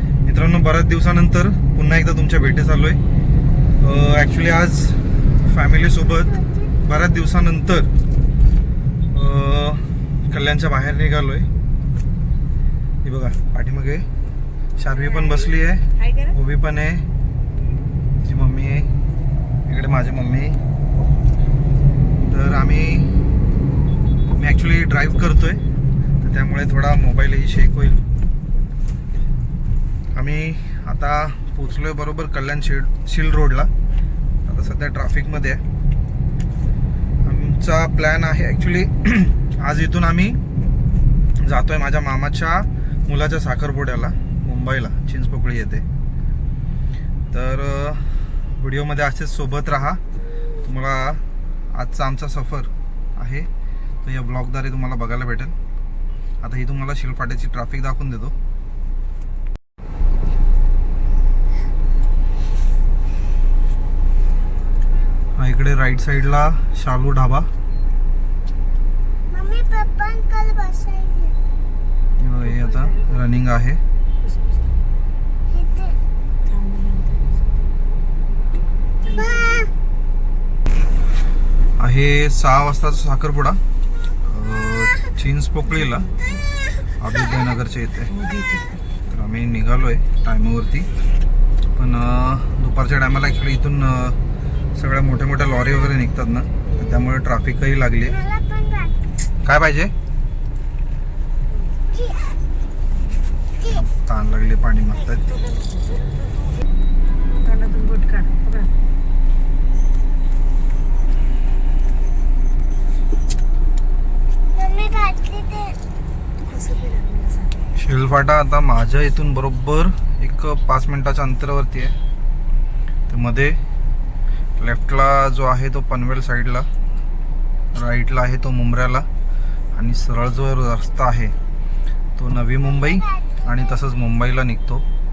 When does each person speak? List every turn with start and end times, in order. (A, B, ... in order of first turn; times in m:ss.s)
0:00.2-0:03.0 A
0:03.8-0:07.9 A
0:09.1-0:11.5 A
0:13.0-0:14.0 A
0:14.8-0:17.0 A
0:18.2-0:18.9 A
0:19.6-0:20.6 A
0:22.2-0:23.1 A
0:24.3-0:25.6 A
0:26.2-0:28.0 A
0:30.1-0:33.7 A
0:34.4-0:35.6 A
0:37.2-0:40.4 A
0:41.4-0:45.8 A
0:47.3-0:50.0 A
0:50.6-0:51.2 A
0:51.7-0:53.5 A
0:54.0-0:55.5 A
0:56.4-0:58.3 A
1:05.4-1:07.5 A
1:09.4-1:11.1 B
1:12.2-1:13.8 A
1:12.6-1:12.9 C
1:16.5-1:17.2 C
1:19.0-1:19.6 C
1:21.8-1:23.6 A
1:24.2-1:26.1 A
1:27.0-1:28.1 A
1:28.2-1:28.8 C
1:29.1-1:30.9 A
1:31.7-1:34.2 A
1:34.8-1:38.2 A
1:39.4-1:39.9 A
1:43.6-1:45.4 A
1:45.6-1:46.0 C
1:47.4-1:48.7 C
1:54.7-1:55.5 B
1:56.4-1:57.5 C
1:57.8-2:01.9 A
2:03.1-2:03.5 A
2:04.6-2:06.7 A
2:07.7-2:09.0 A
2:09.7-2:11.3 A
2:12.2-2:14.8 A